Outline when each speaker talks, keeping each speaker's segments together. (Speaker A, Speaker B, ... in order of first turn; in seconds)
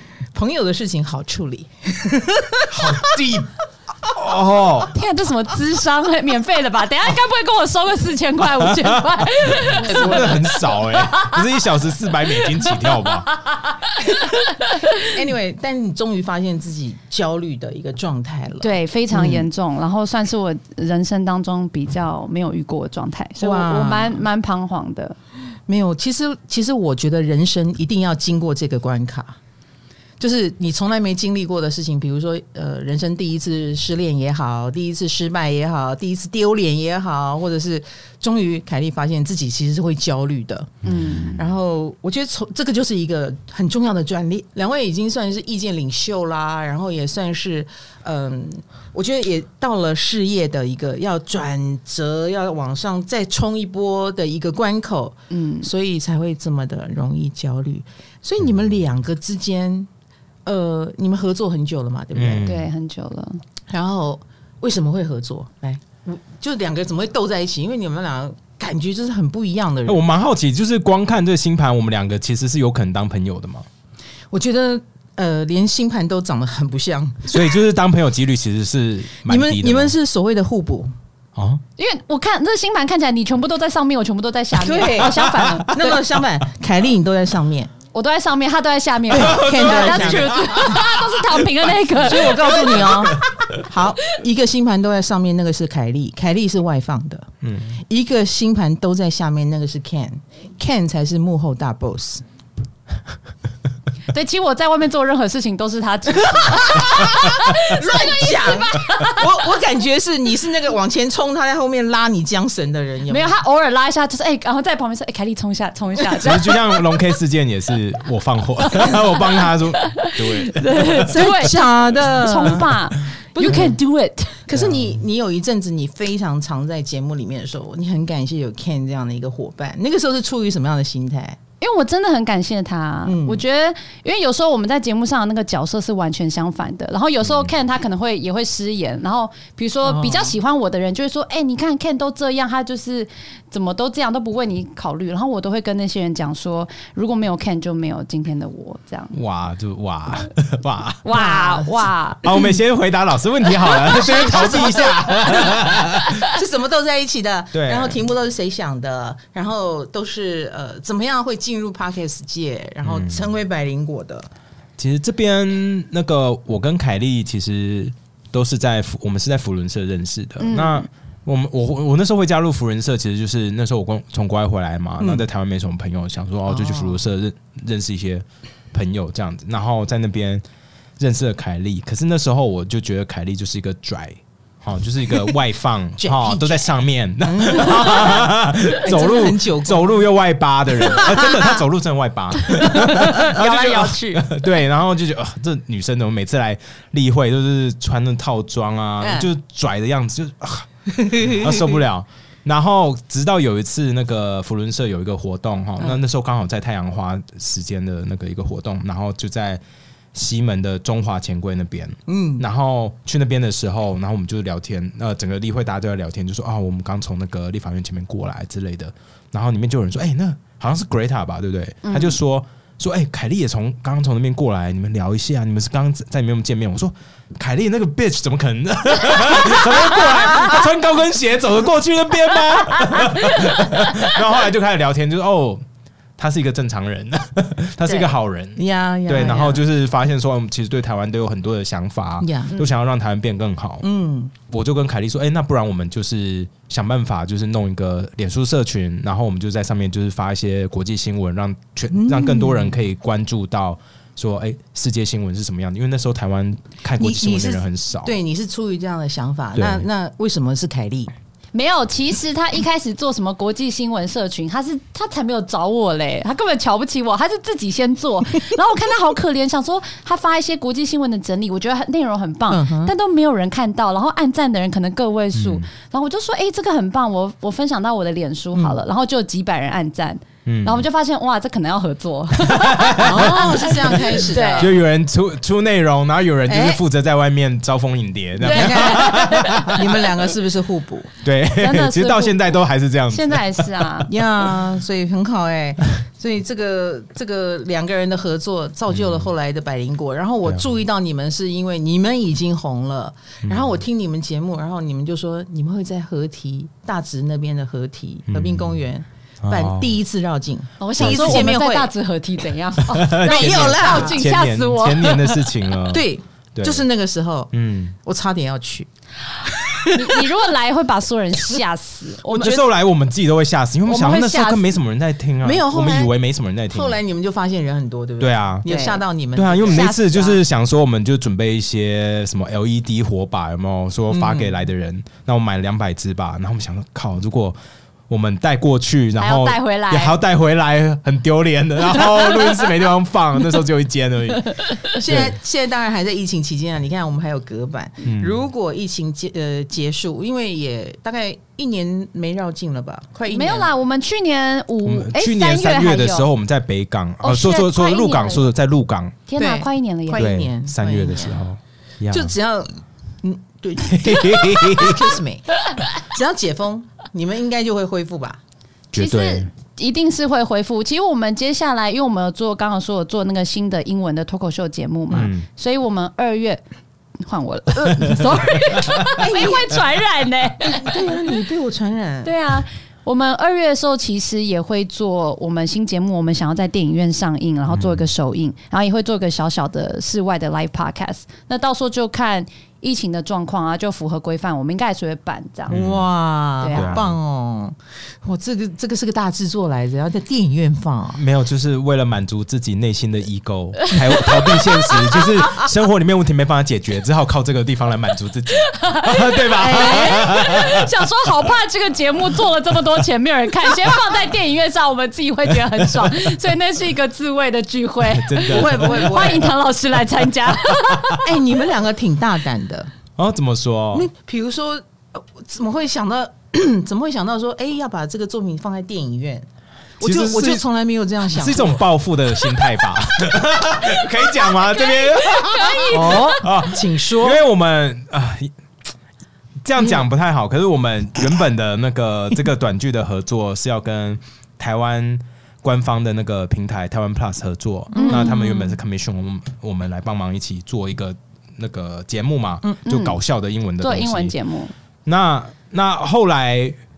Speaker A: 0.3-3.1, 9.8-10.4, 14.9-19.5, 23.4-24.2, 25.7-29.4, 30.2-59.9, 60.4-62.5, 63.7-70.0, 74.3-77.5, 79.2-80.9, 84.5-87.7, 89.1-90.9, 92.0-97.3, 97.8-102.2, 106.2-113.3, 121.0-122.8, 123.3-123.8, 124.5-131.4, 133.0-133.4, 139.8-140.4, 151.1-151.9, 154.0-164.3, 175.0-175.2, 176.5-177.0, 186.0-190.1, 190.8-191.6, 192.7-194.2, 199.0-199.3, 200.9-201.8, 212.1-212.4, 237.8-239.6, 242.2-242.6, 243.8-244.3, 251.9-252.8, 257.0-261.1, 272.5-272.9, 278.5-278.8, 283.0-284.8, 286.5-286.8, 288.4-291.1, 294.1-311.9, 313.2-314.2, 315.9-318.9, 319.4-320.3, 322.3-322.6, 325.4-326.1, 326.7-329.9, 334.1-334.6, 344.9-353.7, 359.4-361.4, 362.1-368.4, 379.1-379.8, 380.6-382.3, 395.7-401.2, 409.7-410.2, 418.5-419.5, 421.2-422.9, 423.9-429.5, 430.0-431.9, 435.9-437.4, 447.9-448.4
Speaker B: 2.7-3.5, 4.0-4.9, 8.7-13.3, 40.8-41.4, 62.1-62.7, 69.8-73.7, 77.3-79.9, 81.3-81.6, 85.0-85.8, 89.1-91.0, 92.5-93.6, 97.4-97.8, 116.2-121.2, 124.5-124.8, 149.1-151.0, 152.2-156.2, 157.5-158.0, 162.8-163.3, 164.8-180.4, 181.0-209.6, 210.1-235.6, 236.2-243.8, 244.5-258.2, 259.5-259.9, 275.3-275.7, 280.4-280.8, 282.4-283.4, 284.6-289.8, 291.2-294.1, 298.9-299.2, 303.4-303.7, 308.3-308.8, 309.4-310.0, 311.0-311.5, 312.9-316.9, 317.5-317.9, 322.3-327.0, 328.2-328.6, 329.3-337.6, 338.1-345.3, 348.0-348.4, 354.8-359.2, 360.1-362.3, 363.8-365.1, 368.9-369.5, 375.1-375.4, 378.0-379.1, 387.7-388.1, 395.7-396.0, 396.7-397.1, 401.1-410.9, 415.8-416.1, 418.0-419.4, 420.7-421.2, 423.2-424.1, 430.0-430.6, 431.3-438.5, 439.6-454.3, 455.1-456.8
Speaker C: 4.9-11.5, 12.3-15.1, 18.6-25.1, 55.3-55.7, 62.4-63.4, 81.8-86.0, 87.9-92.9, 104.1-109.4, 113.1-117.0, 118.7-124.4, 131.6-149.2, 151.0-152.3, 153.8-154.9, 170.4-170.9, 192.6-193.2, 221.8-222.2, 261.5-284.7, 288.4-289.9, 291.5-292.6, 293.1-294.1, 310.8-315.6, 319.9-322.6, 323.9-324.8, 328.6-329.0, 329.6-330.4, 339.2-340.2, 353.3-356.3, 357.2-358.5, 359.3-360.3, 368.9-376.6, 377.2-381.2, 382.2-395.8, 396.6-397.0, 404.2-405.1, 408.6-421.3, 434.6-436.4, 447.9-448.7, 452.8-453.2, 453.8-454.7